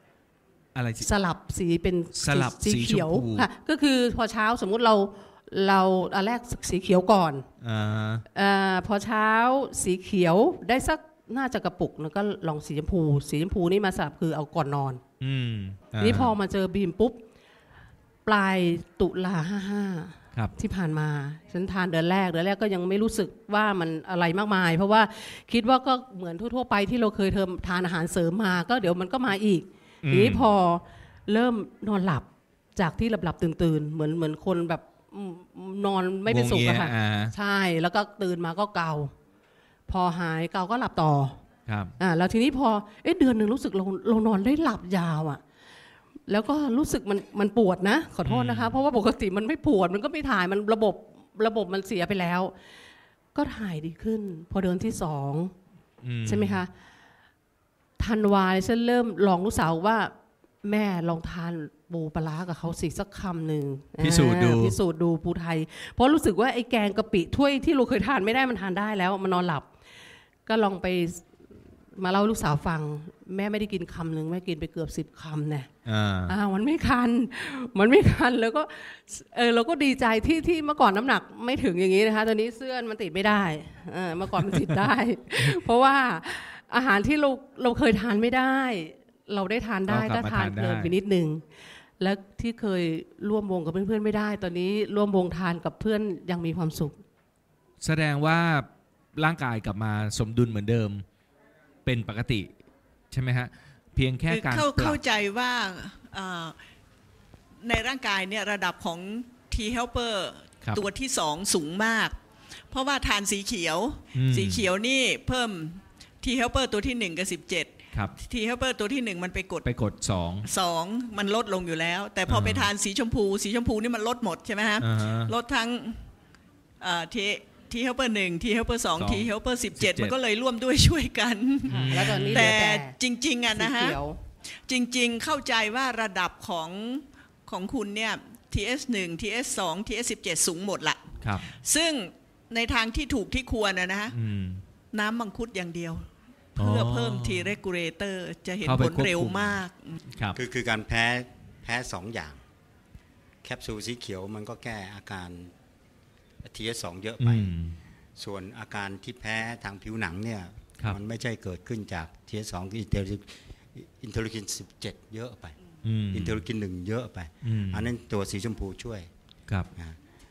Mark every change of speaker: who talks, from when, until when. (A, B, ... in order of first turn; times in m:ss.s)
0:00.8-0:01.1 A
0:01.0-0:07.5 B
0:02.2-0:03.5 A
0:07.6-0:08.2 A
0:08.3-0:15.0 B
0:15.2-0:16.3 A
0:16.0-0:17.2 B
0:18.3-0:39.1 B
0:30.0-0:30.5 A
0:36.3-0:37.3 A
0:39.9-0:41.4 B
0:41.7-0:41.9 A
0:42.0-0:45.4 B
0:46.3-0:52.6 B
0:48.2-0:48.8 A
0:53.4-0:55.5 B
0:56.0-0:56.6 A
0:56.2-0:56.7 B
0:58.0-1:09.7 B
1:04.0-1:04.8 A
1:10.5-1:11.3 B
1:12.0-1:15.7 B
1:15.9-1:16.4 A
1:16.3-1:31.4 B
1:29.9-1:31.0 A
1:32.0-1:37.0 B
1:37.8-1:41.0 A
1:41.8-1:42.5 A
1:43.1-1:45.0 A
1:44.3-1:46.6 C
1:47.6-1:52.2 C
1:52.7-1:59.7 C
1:54.1-1:54.7 A
1:59.6-2:00.5 A
2:00.4-2:06.0 C
2:02.3-2:02.7 A
2:04.8-2:05.3 A
2:06.8-2:14.0 C
2:09.0-2:10.2 A
2:11.7-2:12.5 A
2:11.7-2:13.0 B
2:13.5-2:14.2 B
2:14.6-2:24.1 C
2:21.2-2:21.5 A
2:24.1-2:24.6 A
2:24.9-2:30.0 C
2:26.6-2:27.6 A
2:28.6-2:30.4 A
2:30.4-2:32.4 D
2:33.4-2:35.5 D
2:36.4-2:37.5 D
2:37.2-2:37.8 A
2:38.2-2:45.6 D
2:45.8-2:46.4 A
2:46.1-2:49.1 D
2:47.4-2:47.9 A